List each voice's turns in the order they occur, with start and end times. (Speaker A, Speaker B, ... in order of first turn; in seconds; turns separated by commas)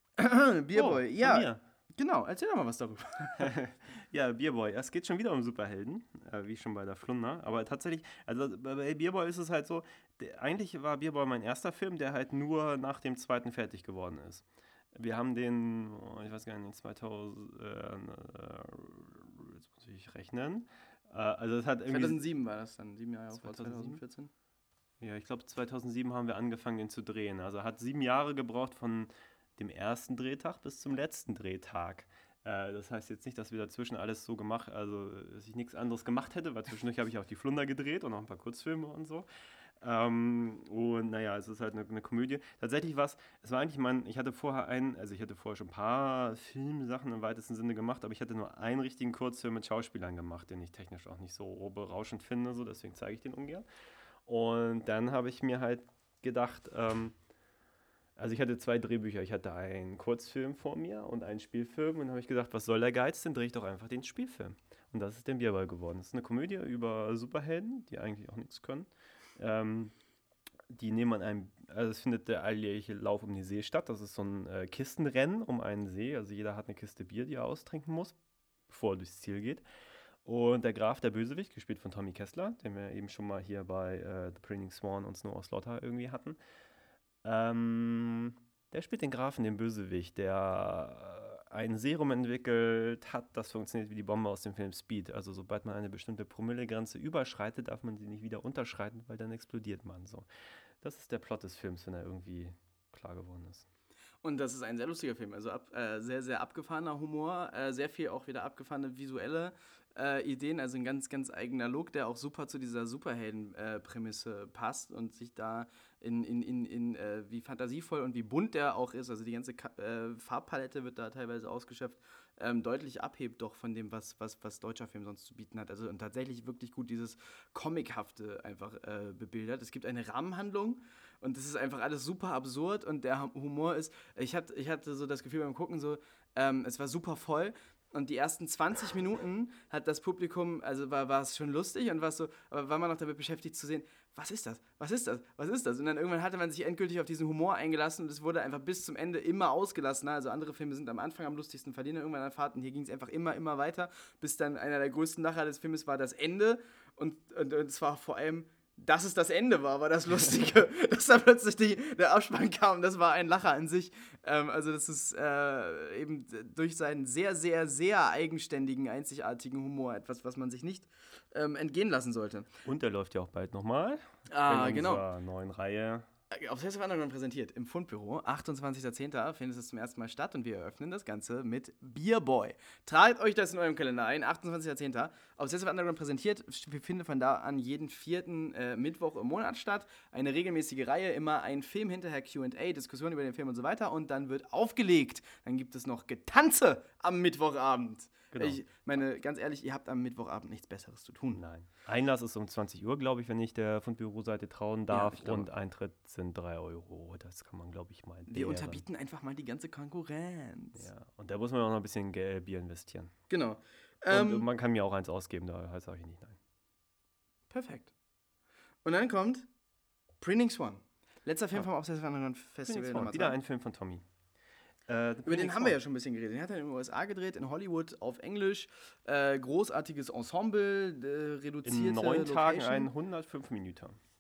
Speaker A: 0.2-3.5, Speaker B: 0.7-1.6, Speaker B: 3.4-22.2, Speaker A: 21.9-24.3, Speaker B: 23.3-24.0, Speaker B: 25.0-39.3, Speaker B: 39.8-53.7, Speaker B: 54.3-57.1, Speaker B: 58.2-69.9, Speaker B: 70.7-78.2, Speaker B: 78.7-79.6, Speaker B: 80.2-86.4, Speaker B: 87.2-100.3, Speaker B: 100.8-103.7, Speaker A: 104.2-172.5, Speaker B: 172.7-176.1, Speaker A: 174.3-175.1, Speaker A: 176.3-201.4, Speaker B: 198.3-198.6, Speaker B: 201.3-208.8, Speaker A: 204.9-205.5, Speaker A: 208.3-210.9, Speaker B: 210.8-213.1, Speaker A: 213.3-214.5, Speaker B: 214.1-216.4, Speaker A: 217.5-217.9, Speaker A: 218.8-219.5, Speaker A: 220.2-223.4, Speaker B: 222.7-224.1, Speaker B: 224.9-225.8, Speaker A: 225.2-232.9, Speaker B: 231.6-234.0